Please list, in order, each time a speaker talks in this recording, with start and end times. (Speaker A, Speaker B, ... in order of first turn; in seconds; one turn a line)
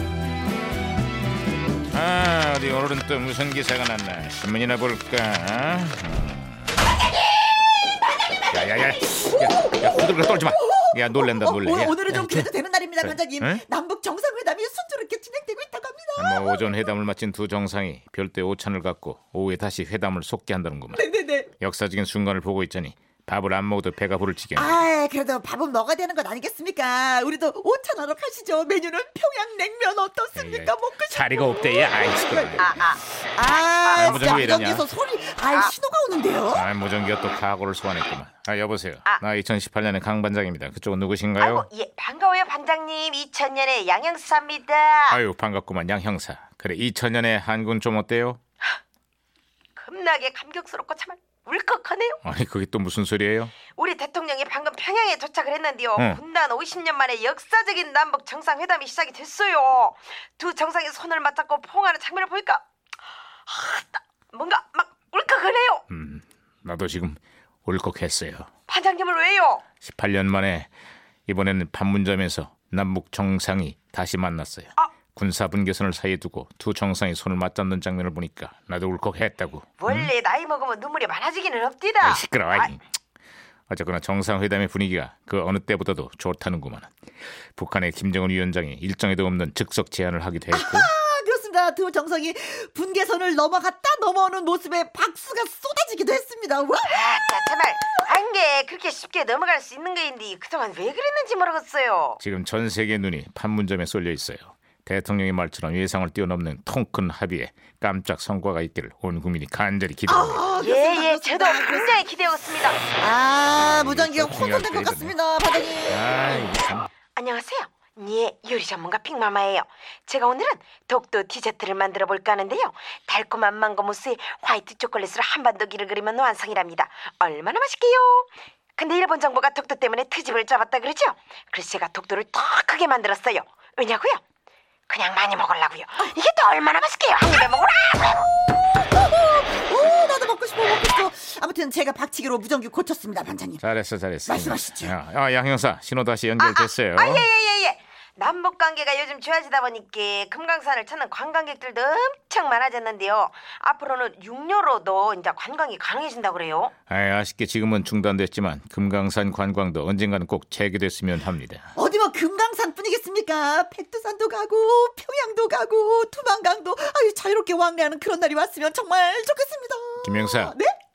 Speaker A: 1.9-6.7
Speaker A: 8.5-12.5
Speaker B: 9.4-16.7
Speaker A: 13.0-13.6
Speaker A: 16.2-21.1
Speaker B: 20.9-21.5
Speaker A: 21.6-24.8
Speaker B: 24.5-32.8
Speaker A: 30.4-32.7
Speaker C: 32.6-33.0
Speaker B: 33.4-36.7
Speaker C: 33.8-34.5
Speaker A: 33.9-34.9
Speaker C: 35.5-35.7
Speaker A: 36.5-41.6
Speaker C: 41.4-45.2
Speaker A: 45.1-48.4
Speaker C: 49.7-52.2
Speaker A: 52.2-53.5
Speaker C: 53.7-62.6
Speaker A: 56.0-56.2
Speaker C: 63.5-65.8
Speaker A: 65.9-68.5
Speaker C: 68.7-69.6
Speaker A: 69.8-70.7
Speaker A: 71.3-80.1
Speaker C: 79.8-82.7
Speaker A: 82.0-82.8
Speaker A: 83.7-86.9
Speaker A: 87.5-90.9
Speaker B: 90.5-97.0
Speaker C: 96.8-102.2
Speaker A: 102.2-110.5
Speaker B: 110.0-112.0
Speaker C: 110.6-112.8
Speaker B: 112.9-116.1
Speaker A: 113.4-115.2
Speaker A: 115.8-116.9
Speaker C: 117.1-134.2
Speaker C: 134.9-138.3
Speaker B: 138.9-143.6
Speaker A: 143.6-147.2
Speaker B: 144.2-144.9
Speaker C: 146.4-156.7
Speaker A: 156.9-161.7
Speaker B: 161.8-170.7
Speaker A: 170.0-170.6